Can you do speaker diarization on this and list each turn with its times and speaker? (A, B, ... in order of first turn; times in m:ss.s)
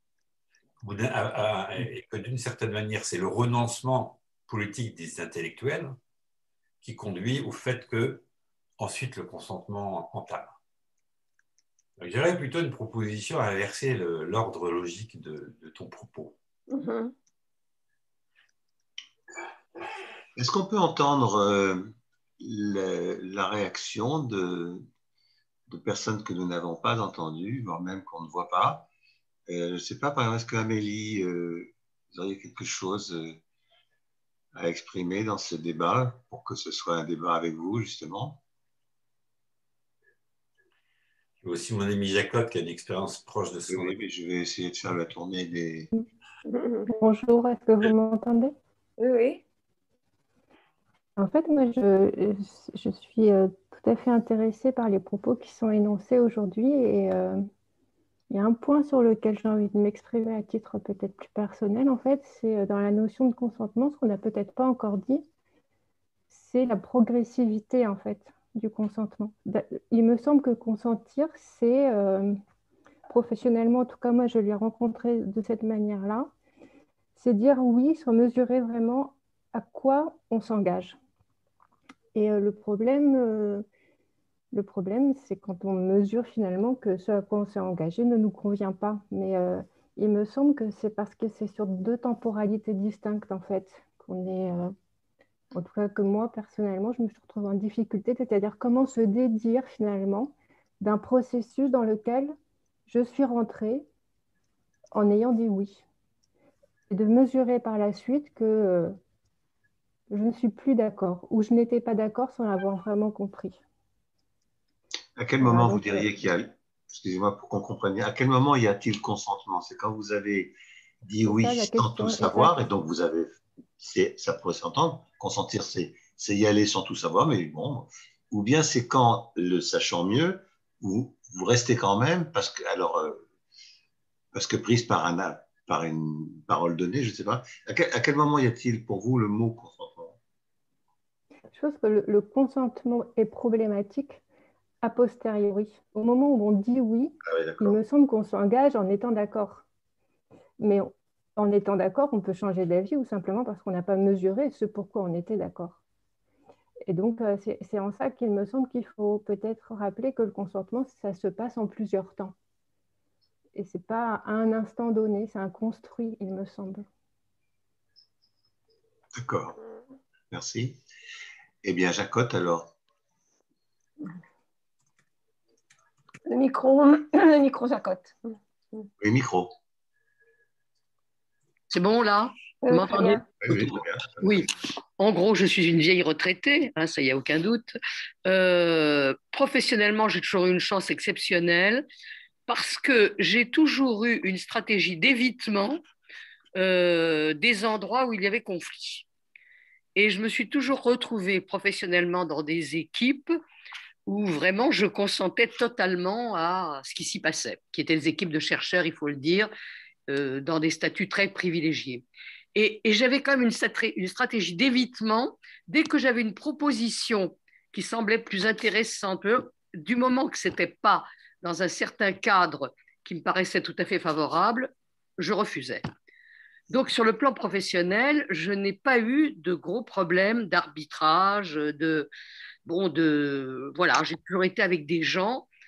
0:00.8-0:05.9 A
0:06.8-0:08.2 A
0:08.8-0:10.5 A
0:12.0-0:16.4 A
0:16.7-0:17.1 B
0:20.4-0:24.8 C
0:25.7-0:28.9 C
0:29.5-0:33.4 C
0:34.5-0:38.4 C
0:41.4-0:44.0 A
0:43.7-0:45.9 C
0:46.5-0:46.9 B
0:46.9-0:48.5 D
0:49.0-0:49.4 B
0:51.2-0:57.4 D
0:58.3-1:05.2 D
1:06.3-1:12.4 D
1:13.1-1:16.3 D
1:17.2-1:21.0 D
1:22.1-1:23.6 D
1:24.5-1:34.7 D
1:35.5-1:42.3 D
1:42.9-1:43.9 D
1:44.9-1:45.8 D
1:46.9-1:49.0 D
1:50.1-1:53.6 D
1:55.2-2:13.2 C
1:55.4-1:56.0 D
2:01.2-2:02.6 D
2:14.3-2:20.2 C
2:21.5-2:24.2 D
2:24.8-2:29.6 D
2:27.2-2:27.8 C
2:30.6-2:35.8 D
2:36.8-2:42.3 D
2:43.5-2:46.8 D
2:49.1-2:49.6 C
2:50.3-2:50.8 C
2:51.6-2:52.7 C
2:56.3-2:58.9 B
2:59.0-2:59.5 C
3:01.7-3:07.7 E
3:02.6-3:03.2 B
3:03.4-3:04.4 C
3:08.2-3:11.8 E
3:12.5-3:15.8 E
3:16.6-3:19.0 E
3:20.0-3:23.3 E
3:24.1-3:29.5 E
3:30.1-3:45.9 E
3:46.7-3:52.1 E
3:52.6-3:55.5 E